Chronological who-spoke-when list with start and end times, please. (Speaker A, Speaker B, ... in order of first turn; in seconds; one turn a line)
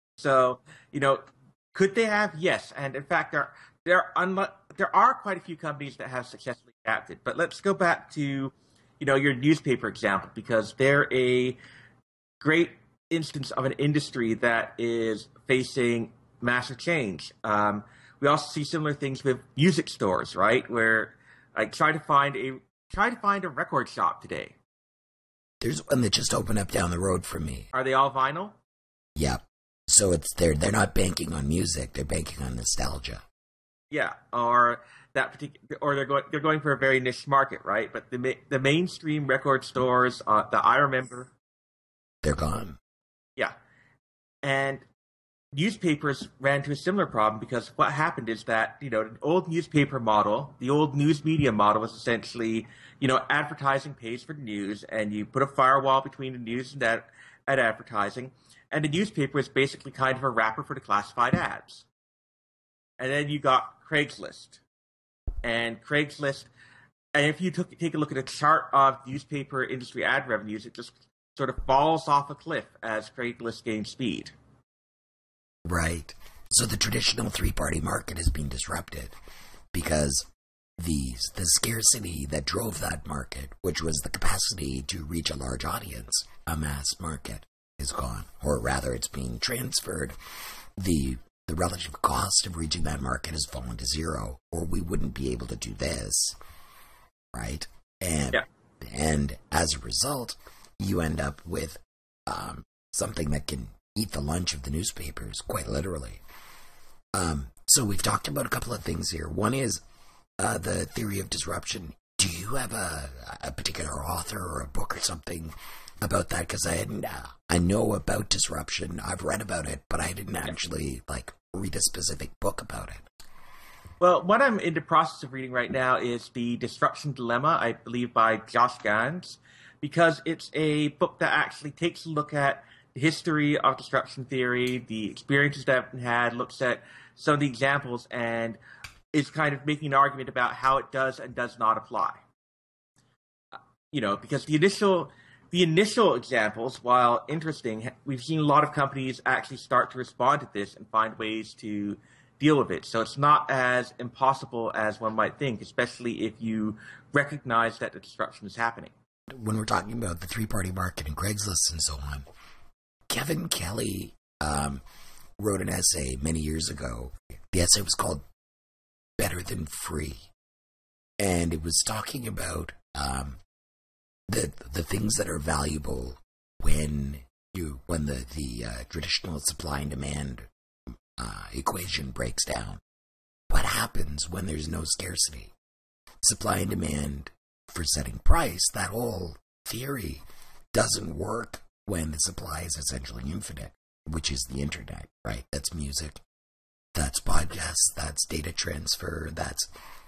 Speaker A: 0.2-11.6
Speaker A: 12.4-24.6
Speaker B: 25.6-27.7
Speaker A: 27.7-28.6
Speaker B: 29.2-33.2
Speaker A: 33.9-41.3
Speaker B: 42.2-42.8
Speaker A: 44.4-44.9
Speaker A: 45.5-61.9
Speaker A: 63.0-64.6
Speaker A: 65.4-66.5
Speaker A: 67.2-74.3
Speaker B: 75.7-79.2
Speaker B: 79.7-80.3
Speaker B: 80.8-90.2
Speaker B: 90.8-96.4
Speaker B: 97.3-106.2
Speaker B: 107.1-109.8
Speaker B: 110.4-123.1
Speaker A: 124.0-138.6
Speaker A: 139.1-142.2
Speaker A: 143.9-158.9
Speaker B: 159.3-162.3
Speaker B: 163.1-164.8
Speaker B: 165.4-168.2
Speaker B: 169.2-170.3
Speaker B: 171.2-173.4
Speaker B: 174.3-180.5
Speaker B: 181.2-182.8
Speaker B: 183.5-185.5
Speaker B: 186.2-196.2
Speaker B: 196.9-199.7